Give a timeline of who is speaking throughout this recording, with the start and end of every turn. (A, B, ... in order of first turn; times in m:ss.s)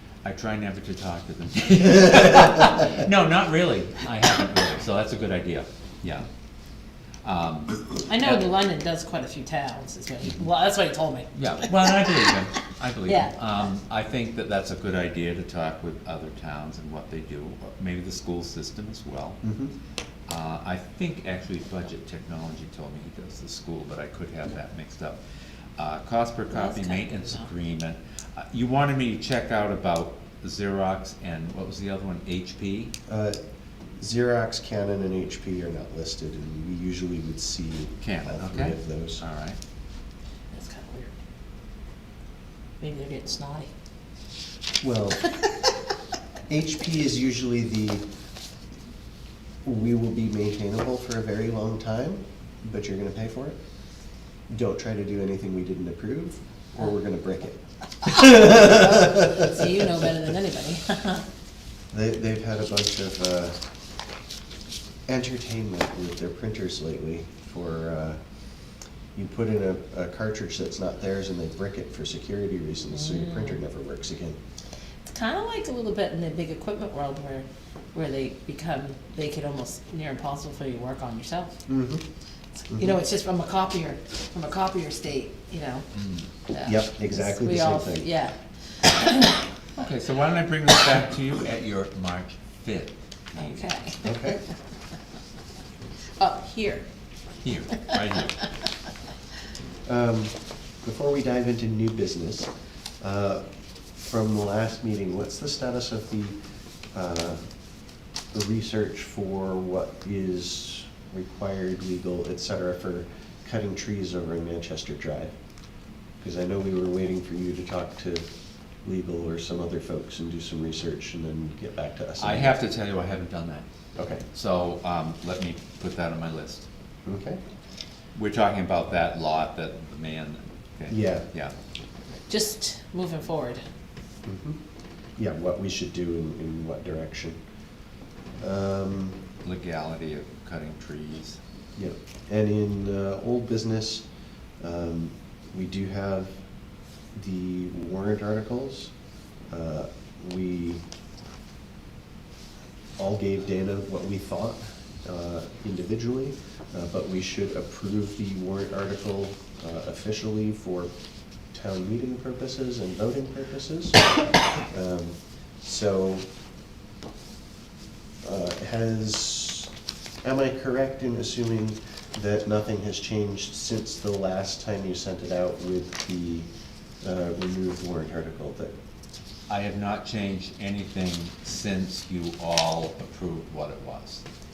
0:00.2-0:06.3 A
0:07.2-0:08.4 A
0:08.1-0:12.1 B
0:11.4-0:19.4 A
0:13.0-0:13.3 B
0:19.4-0:19.7 C
0:20.3-0:25.2 A
0:25.8-0:32.9 A
0:26.5-0:27.5 B
0:33.1-0:33.4 C
0:34.0-0:39.2 C
0:38.0-0:39.6 A
0:40.5-0:41.1 B
0:42.8-0:43.7 B
0:44.8-0:45.4 C
0:46.5-0:48.0 C
0:49.6-0:53.6 C
0:54.5-0:59.8 C
0:58.2-1:01.2 B
1:01.9-1:03.6 C
1:05.1-1:08.2 C
1:09.2-1:14.4 C
1:13.0-1:13.5 B
1:15.0-1:21.6 B
1:21.7-1:22.0 C
1:22.6-1:25.8 B
1:22.7-1:23.0 C
1:25.9-1:26.2 A
1:26.5-1:29.7 B
1:26.6-1:28.1 C
1:29.7-1:33.9 A
1:33.4-1:34.3 B
1:34.0-1:34.4 C
1:36.2-1:36.8 B
1:37.4-1:38.5 A
1:39.8-1:43.4 C
1:44.0-1:46.4 C
1:46.9-1:47.4 C
1:48.3-1:55.4 C
1:56.2-1:58.2 C
1:58.8-2:02.6 C
2:02.2-2:03.6 A
2:04.0-2:04.2 C
2:04.3-2:06.7 A
2:07.0-2:07.4 C
2:08.1-2:11.5 A
2:10.9-2:11.3 C
2:12.3-2:13.6 B
2:14.2-2:14.6 C
2:15.2-2:17.4 C
2:18.4-2:19.2 C
2:19.4-2:21.4 A
2:21.8-2:24.0 C
2:24.6-2:26.4 C
2:27.1-2:28.9 C
2:29.5-2:30.8 C
2:33.0-2:40.9 C
2:41.5-2:46.2 C
2:48.2-2:49.7 C
2:50.2-2:56.5 C
2:57.0-2:58.7 C
2:59.5-3:04.2 A